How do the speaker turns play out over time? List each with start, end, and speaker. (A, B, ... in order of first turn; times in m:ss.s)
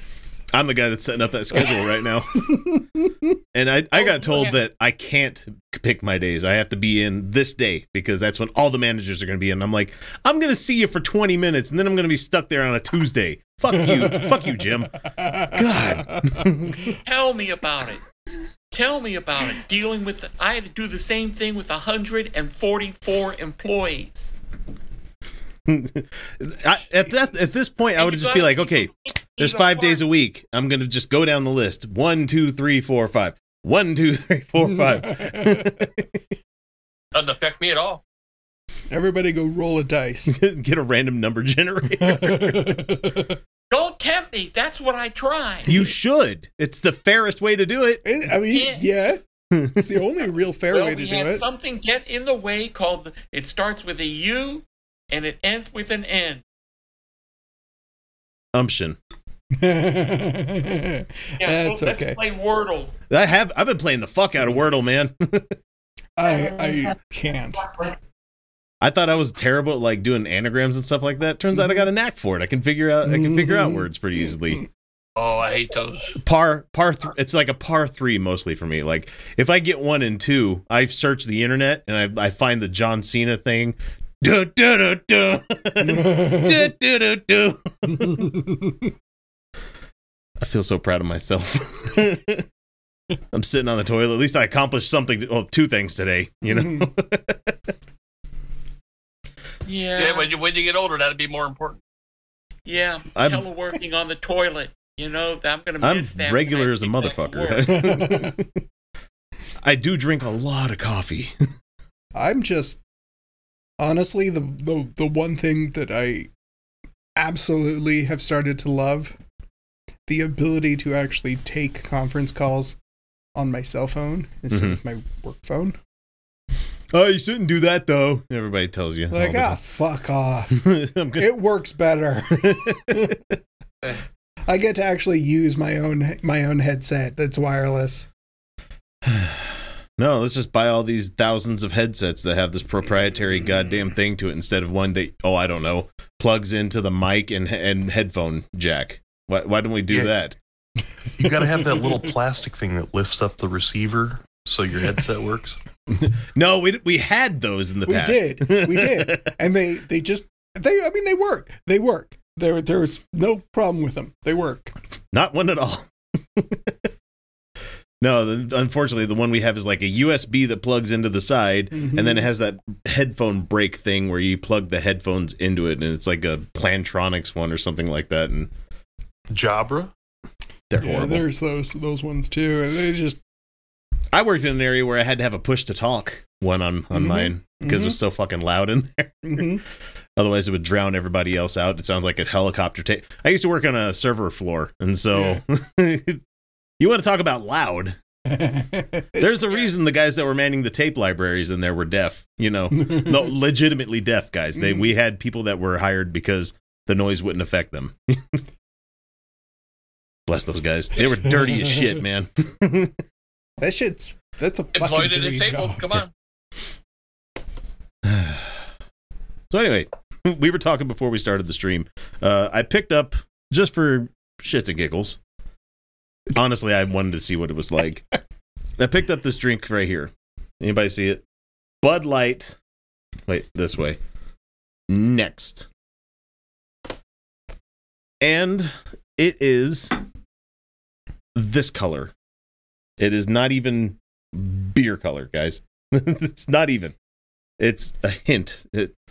0:00.5-0:02.7 A
0:02.5-0:03.3 B
0:03.5-0:17.0 A
0:04.0-0:04.6 C
0:13.7-0:14.6 B
0:15.2-0:16.5 B
0:17.0-0:18.0 C
0:18.7-0:24.3 C
0:25.7-0:36.2 A
0:28.0-0:30.0 C
0:35.2-0:35.5 B
0:37.1-0:38.0 D
0:38.9-0:40.3 B
0:40.3-0:42.8 A
0:42.0-0:43.4 B
0:43.7-0:45.8 C
0:45.7-0:48.0 A
0:48.0-0:51.4 B
0:48.5-0:48.8 C
0:49.5-0:49.8 A
0:50.7-0:56.4 C
0:58.5-0:59.0 A
0:59.6-1:02.2 B
1:01.4-1:02.9 C
1:03.1-1:05.6 A
1:06.2-1:07.9 B
1:06.2-1:06.8 C
1:08.8-1:14.7 A
1:13.1-1:13.9 B
1:15.2-1:16.2 D
1:16.2-1:28.4 A
1:30.4-1:32.5 A
1:33.3-1:37.7 A
1:39.6-1:40.3 C
1:40.0-1:41.8 D
1:42.7-1:48.2 C
1:43.2-1:43.4 A
1:45.8-1:48.5 A
1:47.7-1:48.4 B
1:49.6-1:51.4 A
1:52.2-1:52.8 B
1:53.8-1:56.3 B
1:57.2-1:59.2 B
2:00.1-2:02.8 B
2:03.4-2:05.8 B
2:04.5-2:04.8 A
2:06.9-2:09.6 A
2:09.1-2:13.2 B
2:10.5-2:11.3 A
2:12.3-2:13.4 A
2:14.5-2:18.1 B
2:19.0-2:30.4 A
2:31.2-2:35.6 E
2:35.9-2:39.3 A
2:37.9-2:44.8 B
2:45.1-2:46.9 A
2:48.0-2:58.5 A
2:51.7-2:52.3 B
2:59.3-2:59.9 E
3:00.7-3:01.3 A
3:00.8-3:03.2 B
3:04.1-3:09.6 A
3:06.9-3:08.0 B
3:09.2-3:09.6 B
3:10.2-3:16.2 A
3:15.2-3:15.4 B
3:16.8-3:18.0 A
3:18.3-3:19.3 B
3:19.2-3:28.4 A
3:22.8-3:23.1 B
3:24.6-3:24.9 B
3:30.3-3:33.0 A
3:33.6-3:35.9 B
3:34.8-3:36.1 D
3:38.0-3:38.6 A
3:39.5-3:45.2 A
3:46.3-3:48.1 A
3:48.8-3:51.2 A
3:51.8-3:52.6 A
3:53.3-3:54.0 A
3:54.9-3:55.7 A
3:58.2-3:59.9 A
4:01.4-4:02.1 A
4:03.0-4:07.0 A
4:07.6-4:08.9 A